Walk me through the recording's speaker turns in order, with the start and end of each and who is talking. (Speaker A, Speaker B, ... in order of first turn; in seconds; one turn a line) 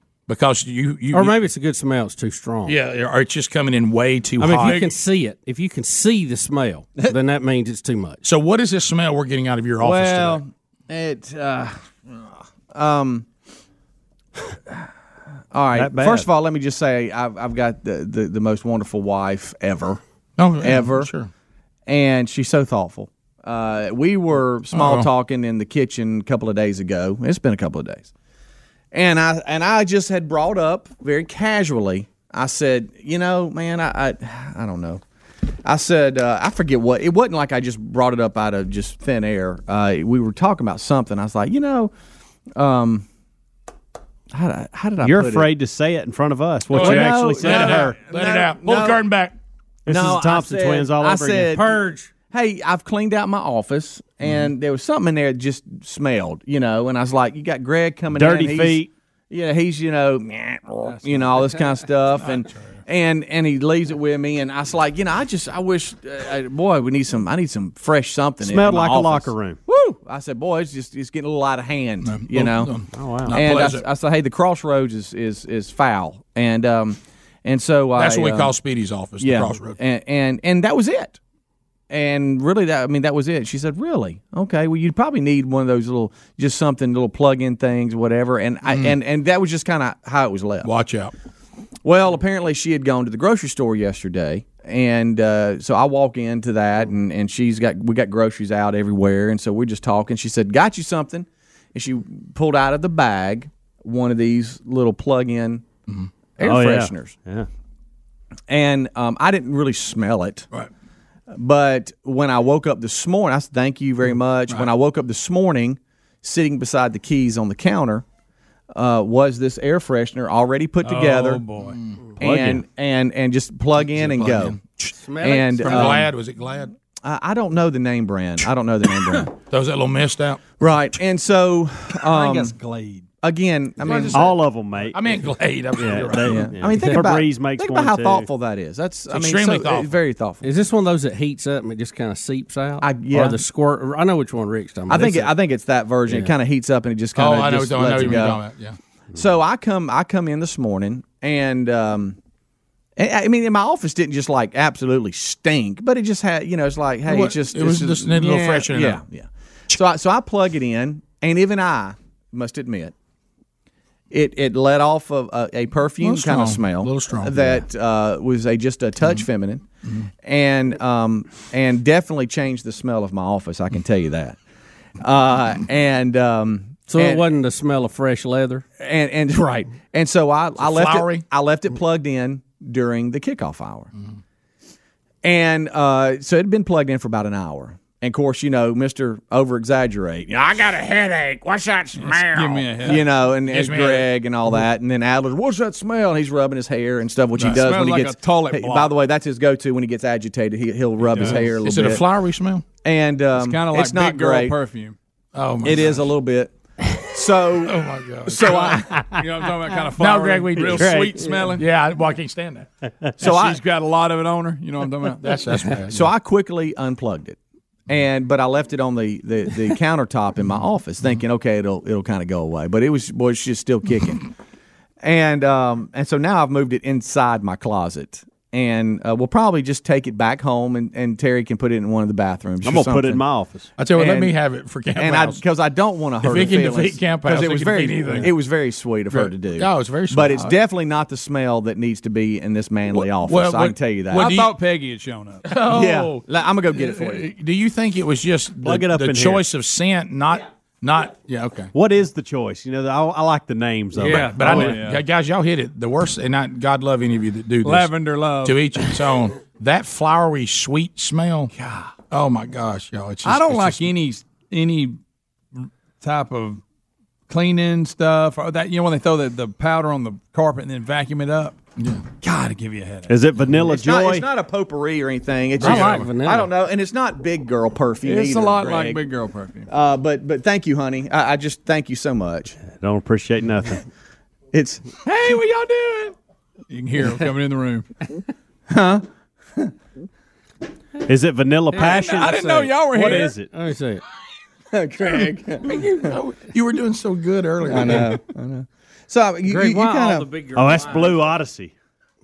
Speaker A: 0.3-1.4
Speaker B: 1.1-2.8
Speaker A: 2.7-4.9
Speaker B: 4.4-8.2
Speaker C: 4.6-5.0
Speaker A: 8.2-10.4
Speaker D: 9.8-11.8
Speaker D: 12.7-13.3
Speaker D: 15.5-20.0
Speaker E: 15.7-16.3
Speaker A: 20.4-21.3
Speaker D: 20.6-21.1
Speaker D: 21.9-28.1
Speaker A: 24.7-25.1
Speaker D: 28.9-35.0
Speaker D: 35.6-41.9
Speaker D: 42.6-43.1
Speaker D: 44.3-45.5
Speaker E: 45.0-48.0
Speaker D: 46.7-49.0
Speaker A: 46.7-49.4
Speaker E: 49.9-51.7
Speaker D: 49.9-72.8
Speaker B: 51.5-52.1
Speaker E: 58.1-58.9
Speaker B: 61.0-61.7
Speaker E: 68.4-69.6
Speaker A: 72.0-73.8
Speaker E: 73.0-73.4
Speaker D: 73.3-78.5
Speaker A: 78.0-79.8
Speaker D: 79.2-81.2
Speaker D: 81.9-90.7
Speaker A: 88.7-88.9
Speaker A: 90.6-91.1
Speaker D: 91.8-105.7
Speaker D: 106.4-107.2
Speaker E: 106.4-107.5
Speaker D: 108.5-110.5
Speaker D: 111.3-118.0
Speaker D: 118.7-121.5
Speaker C: 120.8-121.8
Speaker A: 121.6-122.0
Speaker E: 122.2-122.6
Speaker D: 122.2-124.6
Speaker A: 123.9-124.9
Speaker B: 125.0-126.1
Speaker D: 125.2-126.1
Speaker A: 125.6-126.7
Speaker D: 127.0-129.3
Speaker A: 129.5-130.4
Speaker D: 130.6-132.6
Speaker C: 132.2-133.1
Speaker D: 133.2-134.2
Speaker A: 133.8-134.4
Speaker E: 134.1-135.0
Speaker A: 134.9-136.6
Speaker E: 135.8-138.3
Speaker D: 136.1-140.4
Speaker B: 136.8-137.0
Speaker A: 139.1-140.0
Speaker B: 140.4-145.3
Speaker D: 142.8-143.4
Speaker D: 144.9-148.4
Speaker A: 147.2-148.8
Speaker D: 149.1-152.2
Speaker D: 153.0-162.9
Speaker A: 157.1-159.0
Speaker D: 164.1-169.7
Speaker A: 166.0-167.6
Speaker D: 170.2-174.4
Speaker D: 175.0-177.2
Speaker B: 176.9-178.7
Speaker D: 178.8-183.9
Speaker A: 180.6-181.2
Speaker D: 185.2-202.0
Speaker C: 192.0-193.0
Speaker A: 193.3-194.1
Speaker C: 197.4-198.9
Speaker C: 201.1-201.6
Speaker A: 201.2-202.7
Speaker D: 202.8-204.6
Speaker C: 203.3-205.0
Speaker A: 205.3-206.0
Speaker D: 205.6-208.9
Speaker A: 207.6-208.7
Speaker C: 208.4-211.7
Speaker E: 208.9-209.2
Speaker A: 210.0-212.7
Speaker E: 210.6-211.4
Speaker D: 213.2-213.6
Speaker C: 213.2-215.8
Speaker A: 215.2-216.1
Speaker D: 215.9-224.3
Speaker D: 225.0-233.2
Speaker E: 232.6-233.7
Speaker A: 233.8-235.4
Speaker D: 234.0-234.4
Speaker D: 234.9-244.3
Speaker A: 236.2-238.3
Speaker A: 239.1-240.5
Speaker A: 242.9-244.6
Speaker C: 244.1-245.6
Speaker A: 245.4-246.2
Speaker D: 245.5-247.3
Speaker A: 246.8-251.7
Speaker E: 248.6-249.5
Speaker E: 251.7-254.8
Speaker B: 253.9-254.8
Speaker A: 254.1-261.5
Speaker C: 254.2-255.0
Speaker C: 257.6-258.9
Speaker C: 261.6-261.9
Speaker A: 262.1-263.9
Speaker C: 263.2-265.0
Speaker C: 265.6-266.6
Speaker C: 267.3-271.6
Speaker A: 271.8-272.0
Speaker C: 272.2-273.2
Speaker E: 273.1-274.3
Speaker D: 273.6-279.1
Speaker B: 275.6-276.5
Speaker C: 275.7-276.0
Speaker A: 275.8-276.0
Speaker C: 278.0-279.7
Speaker D: 279.7-282.6
Speaker E: 282.7-283.9
Speaker D: 284.5-285.1
Speaker C: 285.0-286.1
Speaker C: 286.7-287.9
Speaker D: 288.7-289.7
Speaker E: 291.1-293.5
Speaker B: 291.7-294.0
Speaker C: 291.8-293.3
Speaker D: 294.7-296.2
Speaker A: 295.6-298.2
Speaker D: 297.6-300.3
Speaker B: 299.5-301.4
Speaker E: 300.5-301.7